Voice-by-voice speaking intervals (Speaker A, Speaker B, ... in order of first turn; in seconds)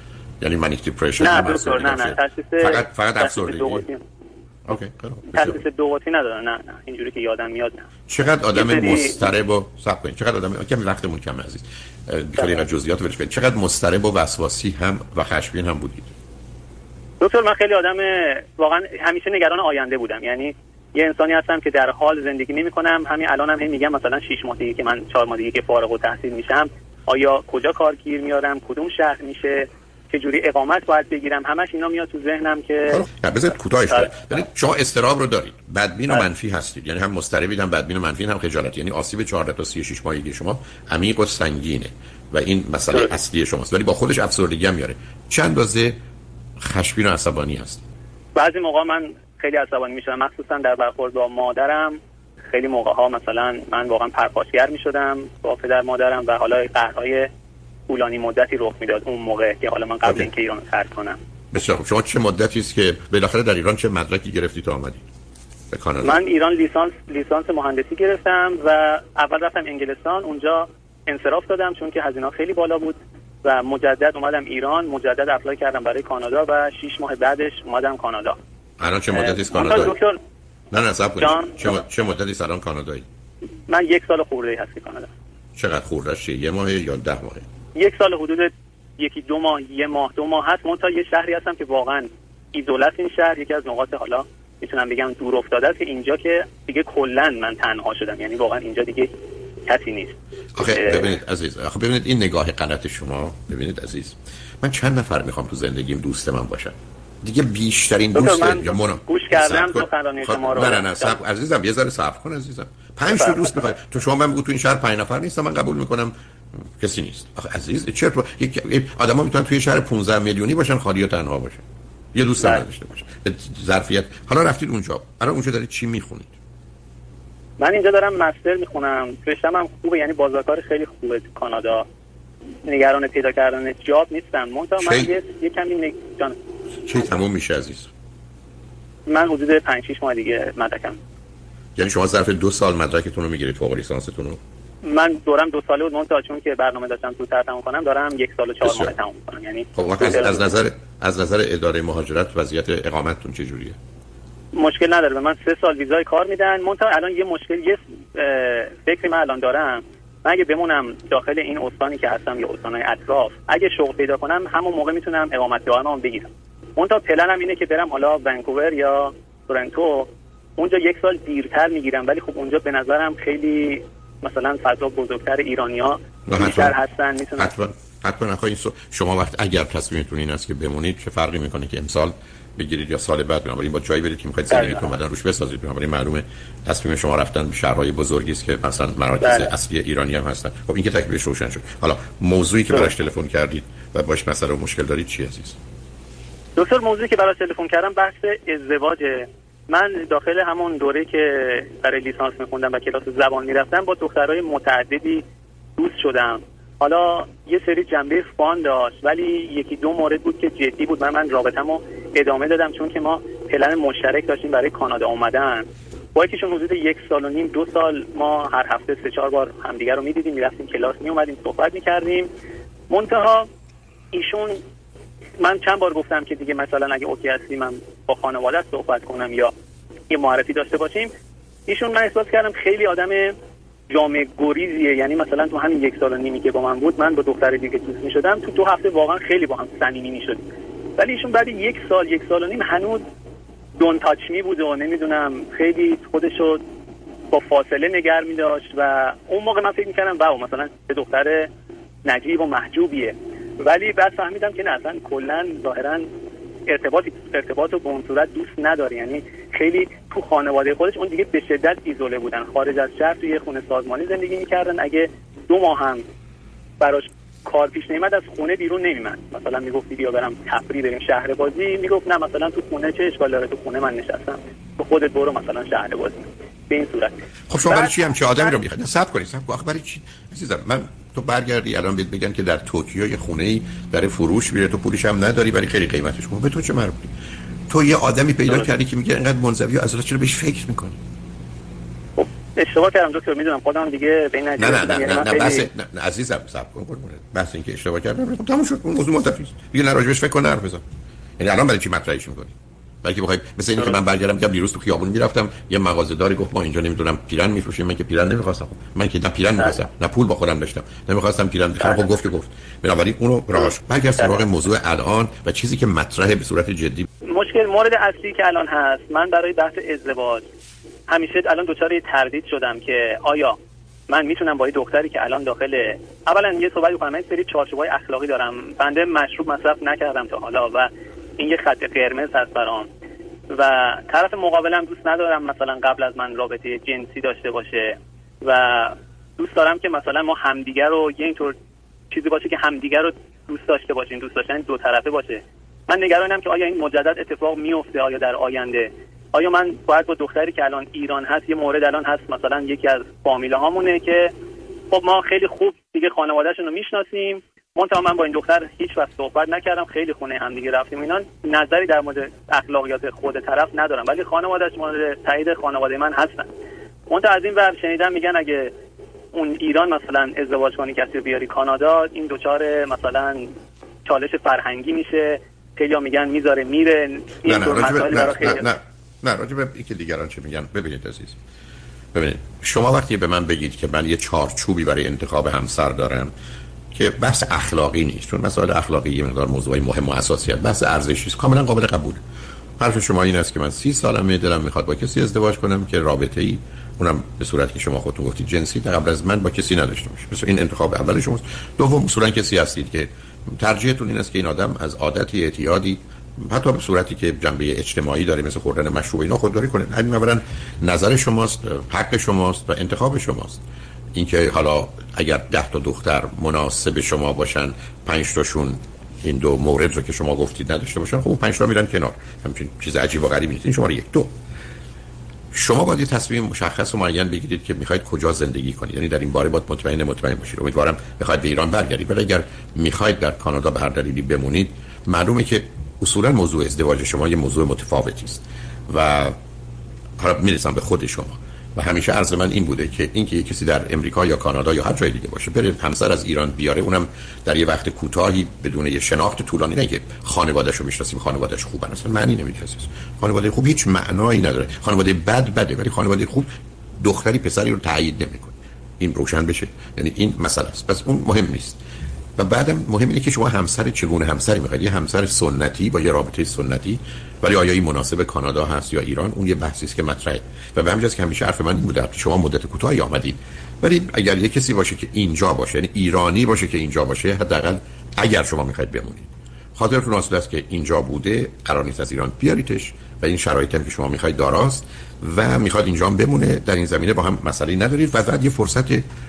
Speaker A: 0.4-3.9, 4.7-5.6, 8.1-16.1, 32.9-46.0, 46.6-47.9, 61.5-65.0, 65.7-66.2, 78.8-79.9, 80.7-83.1, 85.6-87.5, 100.5-116.1, 116.8-126.3, 134.8-135.2, 136.8-137.9, 141.8-144.4, 148.6-148.9, 149.8-153.8, 176.3-176.8, 177.4-195.6, 277.5-287.1, 287.7-291.0, 294.6-300.8, 301.4-317.1, 377.4-381.4, 382.1-386.3, 386.9-392.2, 392.8-413.6, 414.1-424.3, 425.5-439.3, 440.2-461.8, 462.4-489.0
Speaker B: 1.2-4.0, 5.3-7.9, 8.5-9.3, 17.2-33.0, 33.9-34.4, 48.4-52.0, 52.5-57.3, 57.9-61.2, 66.0-78.4, 79.1-80.2, 81.2-81.8, 83.7-85.1, 87.8-99.1, 99.7-101.1, 108.2-111.2, 113.1-113.5, 127.6-131.8, 132.7-136.4, 139.1-141.0, 144.8-150.4, 154.5-177.5, 184.5-184.9, 189.2-189.5, 196.6-205.2, 205.8-222.3, 222.9-223.5, 224.1-224.6, 225.4-229.5, 230.1-231.1, 231.7-233.3, 233.9-240.4, 241.0-243.0, 243.8-246.6, 247.3-251.5, 252.1-256.1, 256.7-266.0, 266.8-278.6, 292.2-295.7, 311.8-312.1, 317.2-320.5, 321.1-323.6, 324.1-332.9, 333.5-341.5, 342.1-354.3, 354.9-366.5, 367.1-368.7, 369.3-373.5, 374.1-378.6